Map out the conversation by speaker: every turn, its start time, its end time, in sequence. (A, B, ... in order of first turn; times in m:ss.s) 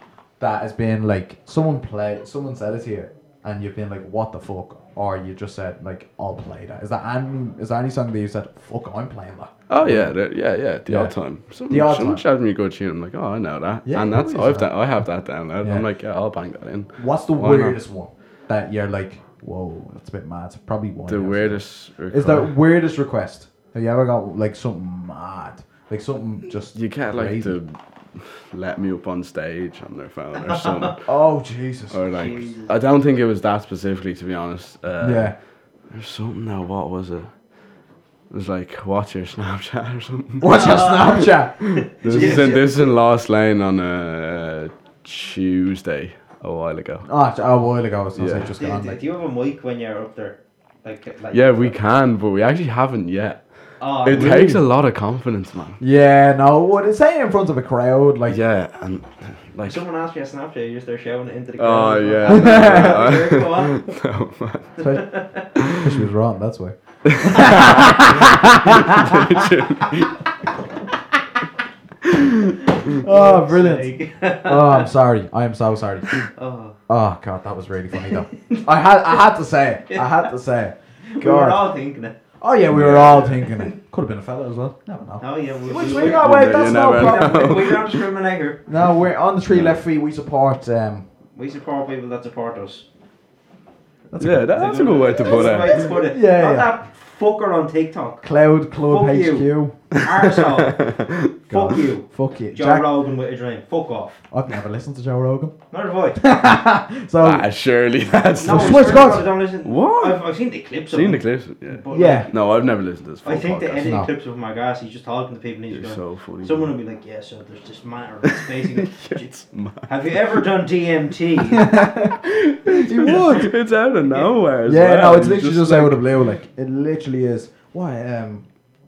0:00.4-0:10.2 A
0:09.7-0:17.8 B
0:10.9-0:12.2 A
0:13.9-0:14.7 A
0:15.6-0:15.9 A
0:17.0-0:27.6 A
0:21.1-0:22.5 B
0:26.8-0:31.1 B
0:30.4-0:31.0 C
0:31.1-0:32.0 A
0:31.9-0:37.3 B
0:32.1-0:32.7 C
0:35.0-0:35.4 A
0:38.3-0:40.8 B
0:40.4-0:42.5 A
0:40.4-0:42.9 C
0:41.6-0:47.1 B
0:47.0-0:49.0 A
0:48.2-0:48.5 B
0:48.6-0:51.8 C
0:51.3-0:55.8 B
0:53.8-0:54.5 C
0:54.1-0:54.6 A
0:55.8-0:58.4 A
0:58.3-0:59.8 B
0:59.7-1:03.9 C
1:01.6-1:04.7 B
1:02.3-1:03.1 A
1:04.8-1:05.6 C
1:04.8-1:05.1 A
1:05.6-1:06.0 B
1:05.6-1:09.5 A
1:07.0-1:10.2 B
1:12.8-1:14.9 C
1:12.9-1:16.3 A
1:16.3-1:16.8 C
1:16.9-1:21.6 A
1:18.0-1:18.6 C
1:19.9-1:20.3 C
1:21.1-1:22.2 C
1:22.4-1:27.7 A
1:22.7-1:23.4 B
1:23.3-1:23.8 C
1:25.2-1:28.7 C
1:25.8-1:28.1 B
1:28.7-1:31.1 A
1:29.5-1:29.8 B
1:31.4-1:32.9 C
1:34.1-1:36.7 A
1:34.2-1:36.0 B
1:34.5-1:38.2 C
1:38.2-1:40.0 A
1:38.8-1:40.8 C
1:40.3-1:41.4 B
1:41.5-1:42.9 A
1:41.5-1:44.2 C
1:44.3-1:45.6 A
1:45.7-1:46.3 C
1:46.2-1:47.5 A
1:47.2-1:54.0 B
1:48.4-1:52.7 C
1:48.4-1:49.3 A
1:51.9-1:52.3 A
1:53.2-2:01.8 C
1:53.8-1:54.1 A
1:55.7-1:56.7 B
1:58.3-2:00.2 B
2:01.5-2:03.6 A
2:02.0-2:06.3 B
2:03.1-2:03.4 C
2:04.1-2:04.4 C
2:04.6-2:08.5 A